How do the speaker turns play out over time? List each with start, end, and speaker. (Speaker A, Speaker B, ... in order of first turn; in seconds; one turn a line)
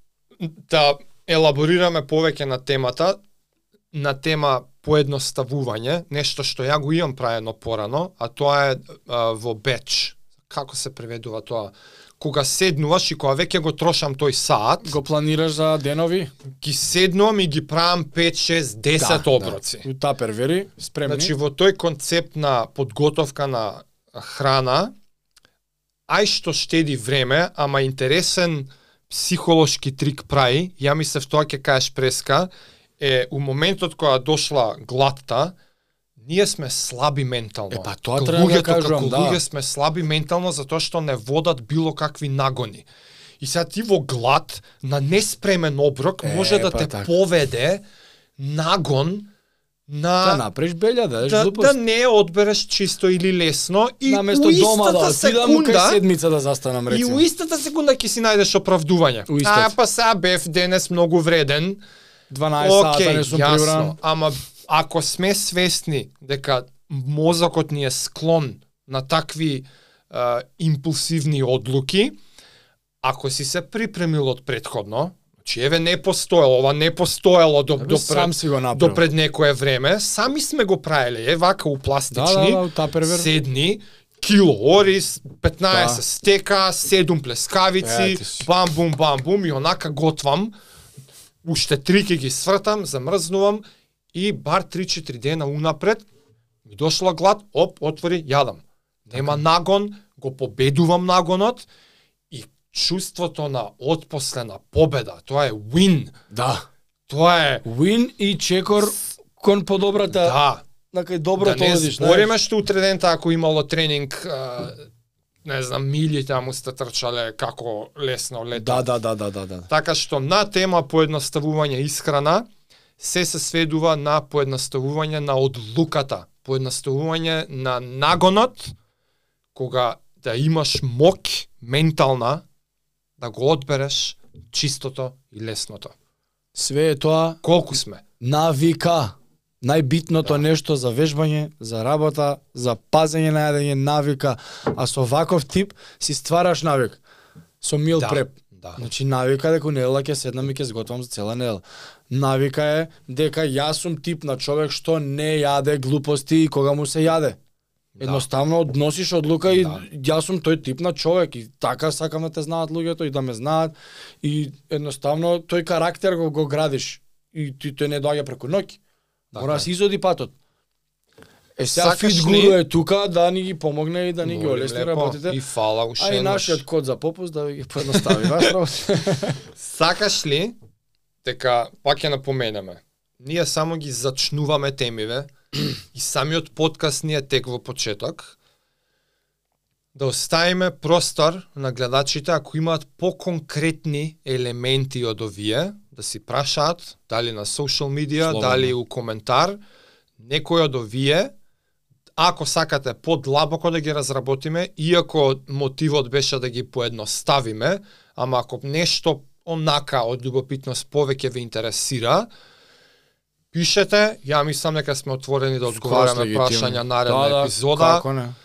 Speaker A: 0.4-3.2
Speaker A: 3.9-14.9
Speaker B: 14.8-16.3
Speaker A: 16.6-19.9
Speaker B: 19.0-21.3
Speaker A: 21.1-24.9
Speaker A: 26.1-35.5
Speaker A: 36.2-42.9
Speaker B: 37.7-39.4
Speaker A: 43.4-47.8
Speaker B: 46.2-47.1
Speaker A: 48.4-49.3
Speaker A: 49.9-50.4
Speaker B: 50.2-51.8
Speaker A: 51.2-56.0
Speaker B: 54.1-57.3
Speaker A: 56.9-61.8
Speaker B: 59.3-59.7
Speaker B: 62.3-64.0
Speaker A: 62.6-72.2
Speaker A: 73.0-90.5
Speaker B: 77.8-79.0
Speaker B: 82.1-83.3
Speaker B: 85.7-86.0
Speaker B: 87.8-88.5
Speaker A: 91.4-96.0
Speaker A: 96.7-101.7
Speaker B: 99.1-99.4
Speaker A: 102.3-106.2
Speaker B: 106.3-106.7
Speaker A: 107.1-107.6
Speaker B: 107.6-110.4
Speaker A: 110.2-110.7
Speaker B: 110.9-112.3
Speaker A: 111.4-114.9
Speaker A: 115.5-118.9
Speaker B: 118.5-119.7
Speaker A: 119.7-122.5
Speaker A: 123.0-128.7
Speaker A: 129.6-132.4
Speaker A: 133.2-135.9
Speaker B: 136.6-137.4
Speaker A: 137.4-138.0
Speaker B: 138.2-147.0
Speaker B: 147.6-157.4
Speaker A: 147.9-148.8
Speaker A: 158.0-158.3
Speaker B: 158.0-168.8
Speaker A: 159.5-159.8
Speaker A: 169.3-169.7
Speaker B: 169.3-170.3
Speaker B: 171.6-175.4
Speaker A: 171.7-172.6
Speaker A: 174.2-176.6
Speaker B: 176.0-179.4
Speaker A: 177.9-178.5
Speaker A: 179.6-180.6
Speaker A: 181.2-185.3
Speaker A: 185.9-188.4
Speaker A: 189.9-199.6
Speaker B: 198.2-198.7
Speaker A: 200.2-201.3
Speaker A: 202.2-212.3
Speaker A: 213.5-218.1
Speaker B: 215.7-218.4